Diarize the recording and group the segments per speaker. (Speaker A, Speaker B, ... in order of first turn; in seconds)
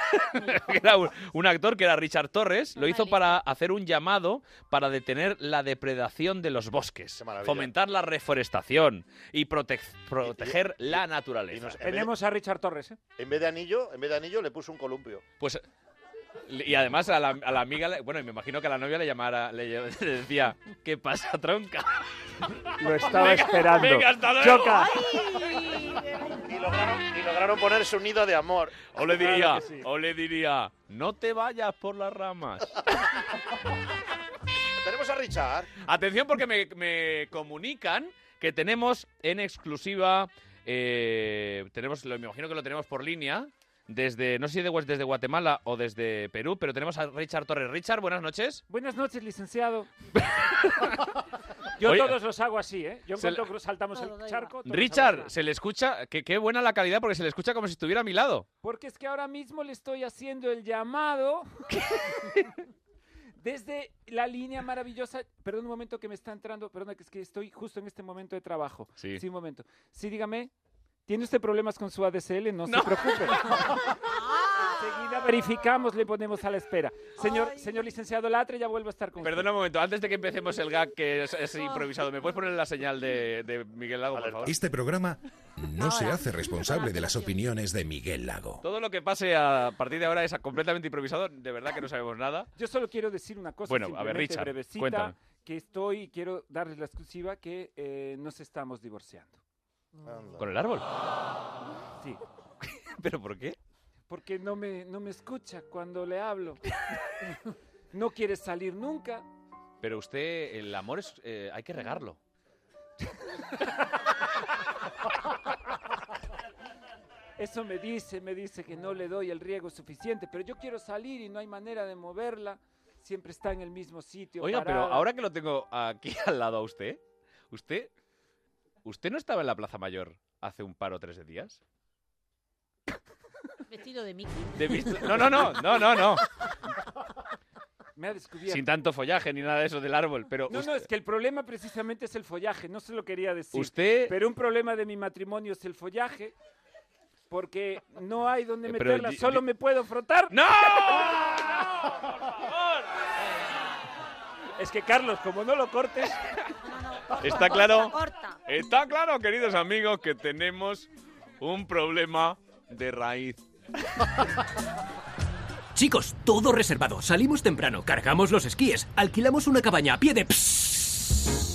Speaker A: 0.1-11.8, 16.5-22.0, 23.0-24.9, 28.9-32.8, 35.8-48.6, 50.6-50.9, 51.8-52.2, 53.2-53.4, 54.7-58.5, 69.0-69.2, 72.7-73.5, 79.2-84.5, 88.6-92.5, 93.7-95.1, 100.4-100.9, 103.0-103.6, 109.8-112.2, 124.4-127.9, 128.8-131.6, 134.6-136.2, 138.5-140.9, 143.5-144.1, 148.7-149.4, 150.3-151.6, 152.3-152.8, 157.2-157.9, 158.5-160.9, 161.4-163.4
Speaker B: 0.4-0.7, 2.8-3.4, 24.8-26.1, 53.9-54.5, 74.1-75.0, 77.2-77.7, 85.8-87.4, 133.7-135.5, 156.6-158.4
Speaker C: 7.2-7.7, 10.2-12.1, 13.2-15.2, 26.3-28.8, 34.8-35.7, 84.1-84.5, 100.0-100.5
Speaker D: 11.8-13.0, 22.8-25.0, 29.1-29.9, 48.7-49.9, 51.8-55.3, 58.6-61.5, 62.0-62.5, 63.4-70.5, 71.1-73.9, 74.8-79.5, 92.5-99.4, 104.1-106.6, 107.9-109.2, 117.4-125.1, 138.0-138.7, 140.5-146.3, 147.3-151.4, 154.6-156.2
Speaker E: 84.5-88.6
Speaker F: 165.7-171.2